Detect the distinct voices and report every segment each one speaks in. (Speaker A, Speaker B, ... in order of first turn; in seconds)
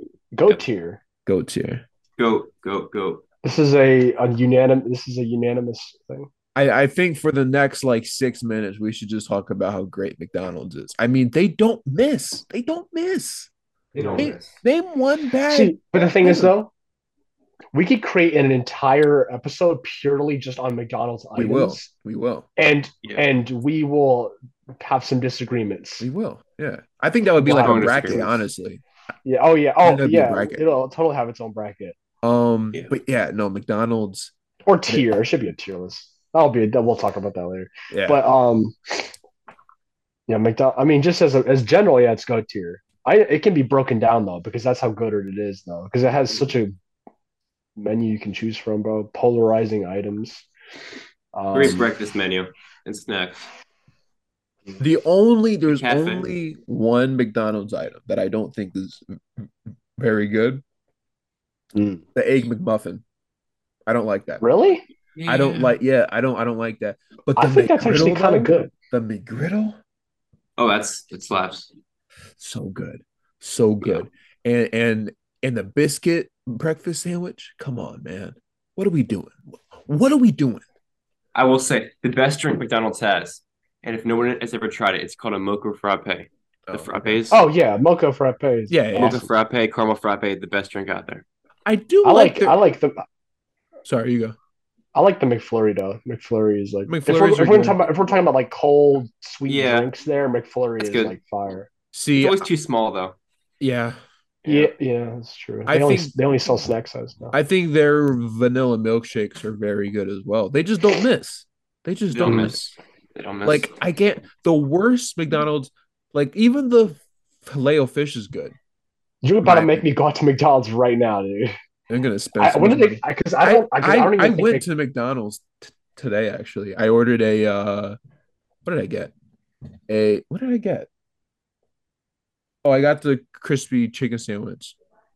Speaker A: 0.3-1.0, 3.4-6.3, 13.9-14.4, 15.5-16.7, 17.7-21.9, 22.6-26.1, 27.4-28.4, 29.2-32.0, 34.7-39.1, 40.3-46.7, 47.8-50.5, 51.3-51.9, 61.7-62.0, 64.4-64.8, 67.3-68.7, 87.3-89.3, 92.0-93.0, 94.9-101.7, 104.4-107.3, 112.2-112.5, 119.2-121.5, 122.4-124.6
Speaker B: 1.2-1.8, 6.5-13.5, 14.2-16.5, 21.4-22.5, 26.0-28.8, 29.8-30.6, 32.2-34.3, 37.9-38.2, 54.8-60.6, 62.1-63.0, 63.9-64.4, 65.3-69.8, 72.4-80.6, 86.7-87.3, 88.7-89.2, 91.7-92.6, 93.8-94.3, 96.9-97.9, 101.9-102.5, 103.6-104.7, 105.7-106.1, 107.3-112.7, 113.4-118.5, 119.4-119.8, 121.9-128.0, 128.6-129.1, 129.9-130.9, 132.6-134.8
Speaker C: 2.2-3.2, 13.9-14.5, 27.4-28.3, 51.5-53.5, 55.7-56.3, 65.1-65.8, 70.6-71.7, 81.3-87.4, 88.9-91.2, 99.5-99.9, 100.8-101.2, 102.1-103.2, 112.1-113.7